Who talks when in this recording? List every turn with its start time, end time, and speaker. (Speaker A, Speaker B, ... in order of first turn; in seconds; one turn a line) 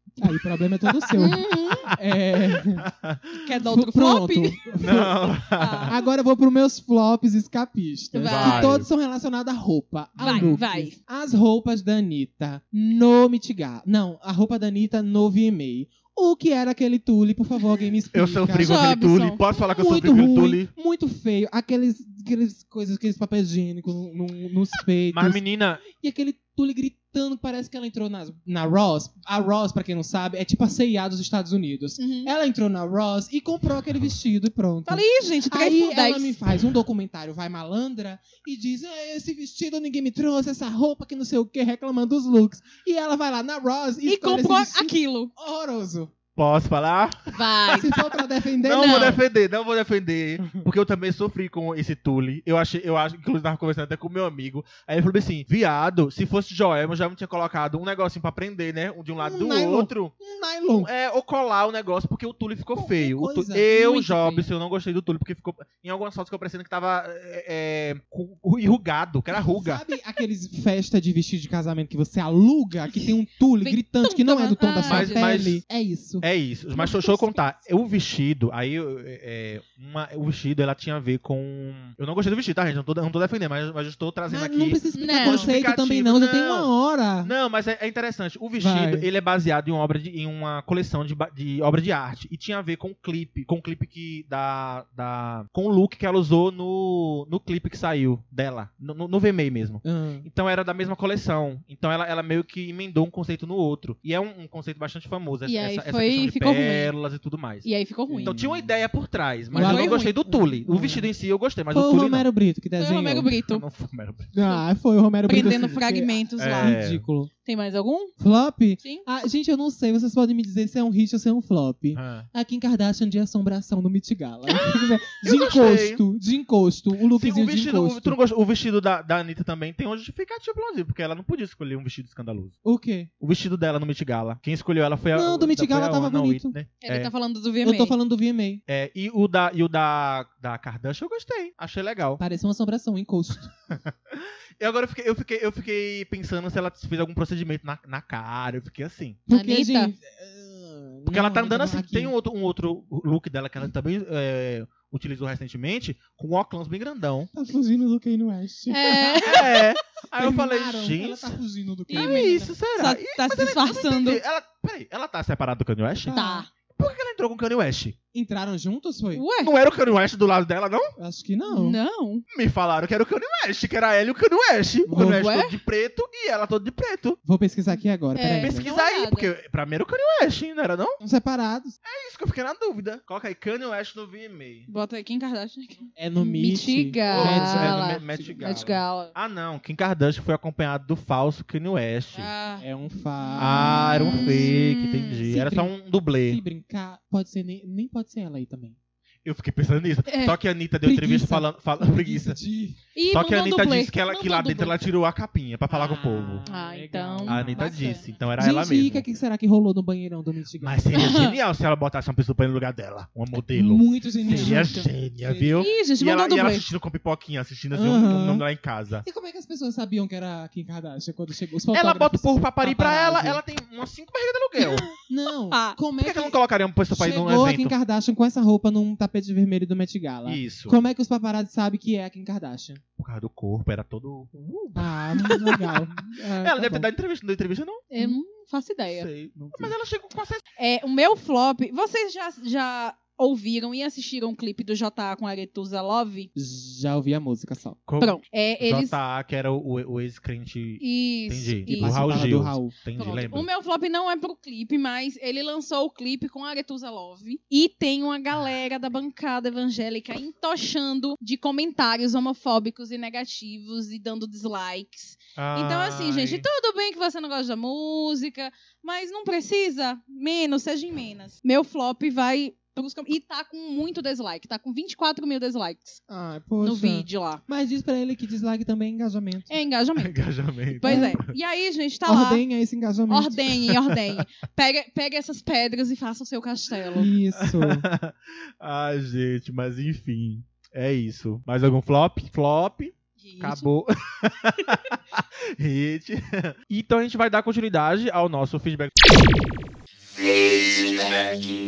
Speaker A: 0.2-2.9
Speaker B: 0.2-1.9
Speaker C: 1.1-1.9
Speaker B: 2.5-3.5
Speaker C: 3.3-4.6
Speaker A: 3.6-5.3
Speaker B: 4.8-5.9
Speaker C: 5.5-6.0
Speaker A: 5.8-18.7
Speaker C: 8.1-8.7
Speaker B: 8.2-8.9
Speaker B: 10.2-10.6
Speaker C: 10.2-10.9
Speaker B: 18.1-20.7
Speaker C: 18.6-19.4
Speaker A: 19.6-46.1
Speaker B: 25.1-25.8
Speaker C: 32.0-32.3
Speaker C: 34.9-36.4
Speaker C: 44.0-45.3
Speaker B: 46.4-48.0
Speaker C: 47.3-48.0
Speaker A: 47.7-49.2
Speaker B: 48.6-60.1
Speaker C: 48.7-49.2
Speaker A: 59.2-60.9
Speaker B: 60.7-69.8
Speaker A: 62.7-64.0
Speaker C: 63.8-64.5
Speaker A: 69.5-76.2
Speaker C: 73.6-75.4
Speaker B: 74.8-75.6
Speaker B: 76.2-86.7
Speaker C: 76.8-77.4
Speaker A: 84.3-87.3
Speaker C: 84.9-85.5
Speaker B: 87.2-112.3
Speaker A: 88.6-89.1
Speaker A: 99.8-100.3
Speaker C: 105.5-106.9
Speaker C: 107.6-108.4
Speaker A: 108.1-108.7
Speaker C: 109.5-110.2
Speaker A: 109.5-111.1
Speaker A: 111.7-113.3
Speaker C: 112.8-113.6
Speaker B: 113.4-114.3
Speaker A: 114.3-117.3
Speaker C: 115.3-116.8
Speaker B: 116.4-117.0
Speaker C: 117.4-118.1
Speaker A: 118.2-128.2
Speaker B: 121.9-122.3
Speaker B: 125.2-126.0
Speaker B: 127.1-132.6
Speaker A: 132.6-133.1
Speaker B: 133.2-137.1
Speaker A: 135.1-136.5
Speaker C: 136.8-137.9
Speaker A: 137.6-138.6
Speaker B: 138.7-142.2
Speaker A: 142.2-143.5
Speaker B: 143.7-149.2
Speaker A: 149.3-152.1
Speaker C: 149.3-149.9
Speaker B: 151.1-157.3
Speaker A: 157.3-159.6
Speaker C: 158.7-159.6
Speaker B: 159.2-161.4
Speaker A: 160.1-162.5
Speaker C: 161.9-164.2
Speaker B: 161.9-166.2
Speaker A: 166.0-166.4
Speaker C: 166.1-166.5
Speaker B: 166.7-167.9
Speaker A: 168.1-169.2
Speaker C: 169.1-169.5
Speaker B: 169.4-170.9
Speaker A: 171.0-171.8
Speaker C: 171.5-172.2
Speaker B: 172.3-177.2
Speaker A: 174.8-175.2
Speaker C: 174.9-175.5
Speaker A: 177.2-178.7
Speaker C: 178.1-179.3
Speaker B: 178.4-181.0
Speaker A: 181.0-181.8
Speaker B: 181.8-184.7
Speaker C: 184.7-189.1
Speaker A: 186.0-188.3
Speaker B: 187.1-192.3
Speaker C: 192.1-192.6
Speaker A: 192.6-194.5
Speaker C: 193.4-195.2
Speaker B: 193.4-196.4
Speaker A: 195.2-195.7
Speaker A: 196.2-198.8
Speaker B: 199.2-202.4
Speaker C: 200.1-200.4
Speaker A: 200.8-202.8
Speaker C: 202.9-204.7
Speaker B: 203.1-206.4
Speaker A: 205.7-211.2
Speaker C: 206.4-208.1
Speaker B: 207.2-209.0
Speaker B: 210.6-219.1
Speaker C: 210.9-211.4
Speaker A: 213.5-215.7
Speaker C: 214.2-214.9
Speaker C: 215.6-216.7
Speaker A: 217.7-218.4
Speaker A: 219.0-223.4
Speaker B: 221.7-224.9
Speaker C: 224.6-225.0
Speaker A: 225.1-226.4
Speaker C: 225.5-225.8
Speaker B: 226.0-227.7
Speaker A: 226.9-232.8
Speaker B: 230.2-230.8
Speaker B: 233.0-235.6
Speaker A: 234.7-236.9
Speaker B: 236.4-237.8
Speaker C: 237.9-239.1
Speaker B: 238.9-240.4
Speaker A: 239.3-239.7
Speaker C: 240.6-246.3
Speaker A: 246.3-247.8
Speaker B: 247.9-253.5
Speaker C: 248.0-248.9
Speaker C: 250.8-252.2
Speaker A: 251.7-252.7
Speaker C: 252.9-276.0
Speaker B: 265.4-266.5
Speaker A: 276.1-279.5
Speaker C: 276.6-277.4
Speaker C: 279.5-282.4
Speaker B: 279.9-281.2
Speaker A: 280.8-281.2
Speaker A: 282.1-283.5
Speaker C: 283.1-287.1
Speaker A: 286.9-287.9
Speaker B: 287.4-299.3
Speaker C: 293.2-293.7
Speaker C: 300.2-301.4